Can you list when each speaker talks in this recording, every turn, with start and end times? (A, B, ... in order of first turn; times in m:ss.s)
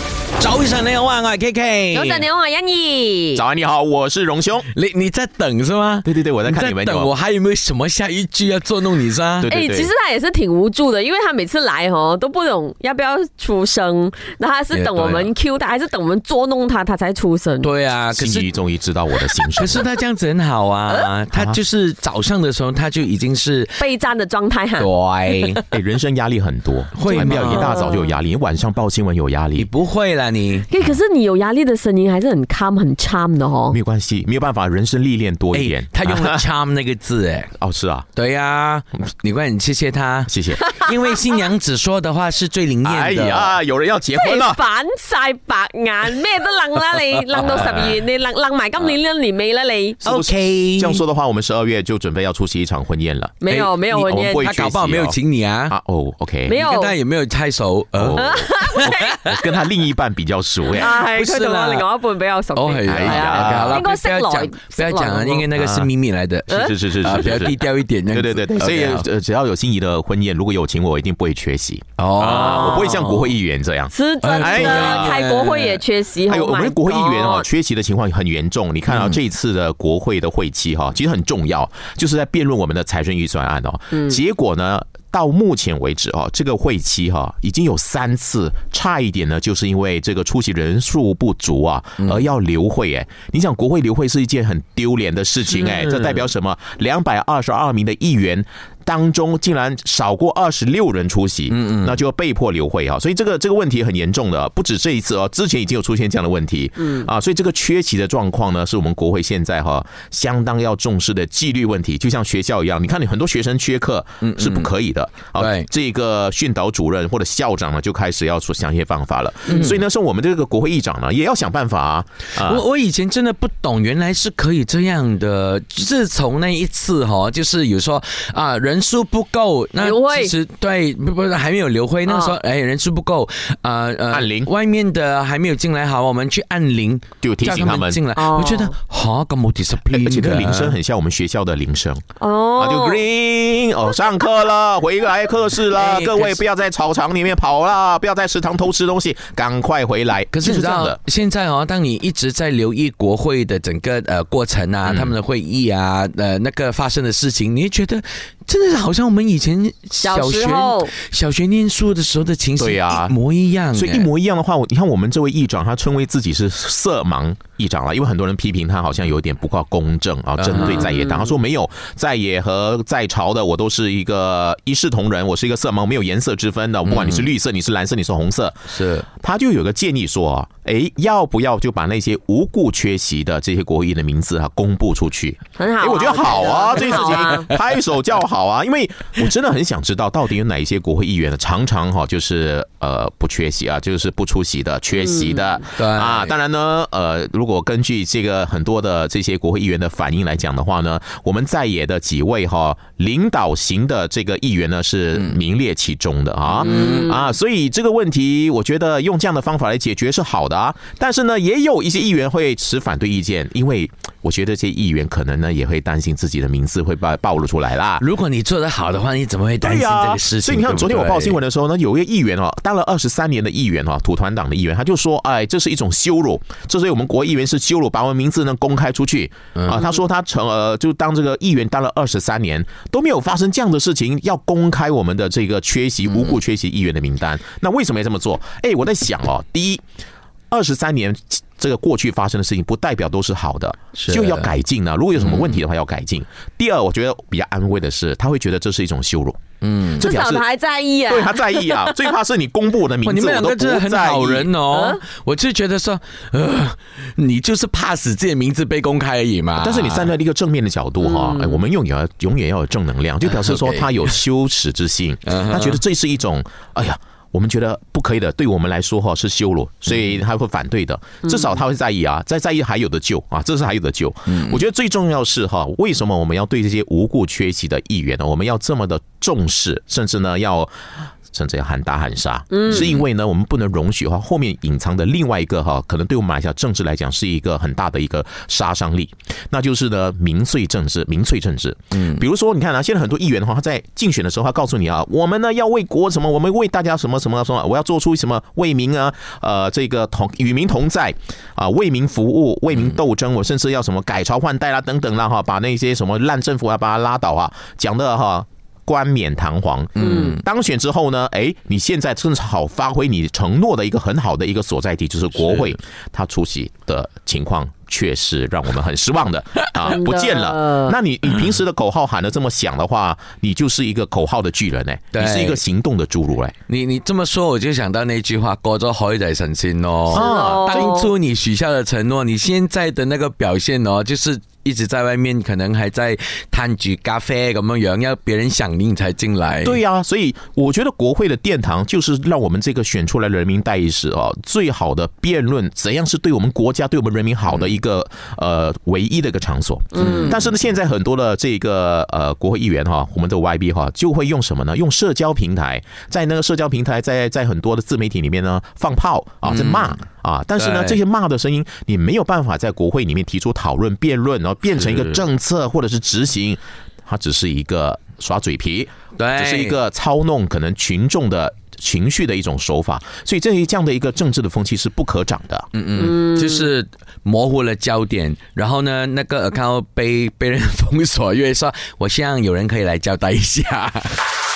0:00.4-0:02.3 A
0:01.9-0:03.4 B
0:03.3-0:04.7 C
0:04.7-0:09.5 A
0:06.0-0:07.1 C
0:09.4-0:09.9 C
0:09.5-0:17.7 B
0:14.7-0:15.3 A
0:17.6-0:18.5 A
0:18.1-0:19.9 C
0:19.4-0:23.8 A
0:21.3-0:21.6 C
0:23.8-0:25.6 B
0:24.8-0:25.6 A
0:25.7-0:29.7 C
0:26.9-0:27.8 A
0:27.1-0:28.2 B
0:29.6-0:30.7 A
0:30.7-0:33.8 B
0:33.7-0:36.4 C
0:35.5-0:37.5 A
0:37.6-0:38.1 C
0:38.1-0:43.6 A
0:40.3-0:40.8 C
0:42.8-0:44.6 C
0:44.1-0:50.0 B
0:47.3-0:48.0 A
0:47.4-0:47.9 C
0:50.0-0:56.6 C
0:50.0-0:51.0 A
0:53.4-0:54.5 B
0:53.4-0:53.7 A
0:54.4-0:55.8 A
0:56.4-0:56.9 B
0:56.5-0:59.3 A
0:57.9-1:01.0 C
0:58.2-0:59.3 B
1:00.7-1:05.5 B
1:00.7-1:01.9 A
1:02.5-1:09.1 A
1:02.9-1:03.8 C
1:05.5-1:05.9 C
1:06.5-1:15.2 C
1:06.5-1:06.8 B
1:12.0-1:13.3 A
1:12.5-1:12.9 B
1:13.9-1:17.5 B
1:14.2-1:15.8 A
1:16.3-2:02.6 C
1:18.9-1:19.2 A
1:32.0-1:32.3 A
1:35.5-1:36.2 A
1:41.5-1:42.0 A
1:54.2-1:54.7 A
1:55.4-1:55.7 A
1:59.5-1:59.8 A
2:02.4-2:20.8 A
2:09.8-2:10.3 B
2:12.0-2:12.4 B
2:14.1-2:14.5 C
2:17.2-2:18.0 C
2:18.2-2:18.8 B
2:19.9-2:22.0 C
2:22.2-2:23.0 B
2:22.6-2:31.0 C
2:25.7-2:26.4 A
2:30.3-2:44.1 A
2:34.8-2:35.1 C
2:40.0-2:40.9 B
2:42.6-2:43.2 C
2:43.7-2:58.6 C
2:50.4-2:51.0 A
2:50.6-2:51.3 B
2:56.8-2:57.3 A
2:58.7-2:59.1 A
2:59.2-3:38.0 C
3:05.6-3:07.5 B
3:15.7-3:16.3 A
3:26.5-3:27.2 A
3:26.7-3:27.2 B
3:38.0-3:41.4 A
3:39.6-3:59.8 C
3:49.6-3:49.8 A
4:00.5-4:09.4 C
4:04.0-4:04.5 A
4:05.2-4:05.6 A
4:09.6-4:10.1 A
4:09.9-4:10.4 C
4:10.0-4:12.1 B
4:11.0-4:14.5 C
4:13.0-4:20.1 A
4:14.7-4:15.0 B
4:19.6-4:40.7 C
4:21.0-4:21.6 B
4:23.3-4:23.9 A
4:25.3-4:25.8 A
4:34.3-4:34.6 A
4:41.3-5:26.6 C
4:42.5-4:42.9 B
5:10.0-5:10.4 A
5:10.0-5:10.4 B
5:19.8-5:20.9 B
5:25.1-5:25.6 A
5:26.7-5:39.8 A
5:30.1-5:31.0 C
5:30.1-5:31.1 B
5:39.6-6:15.7 C
5:49.9-5:50.4 B
5:50.0-5:50.3 A
5:59.4-5:59.9 A
6:00.6-6:01.0 A
6:04.8-6:05.2 A
6:09.2-6:09.8 A
6:15.7-6:24.2 A
6:16.0-6:16.6 B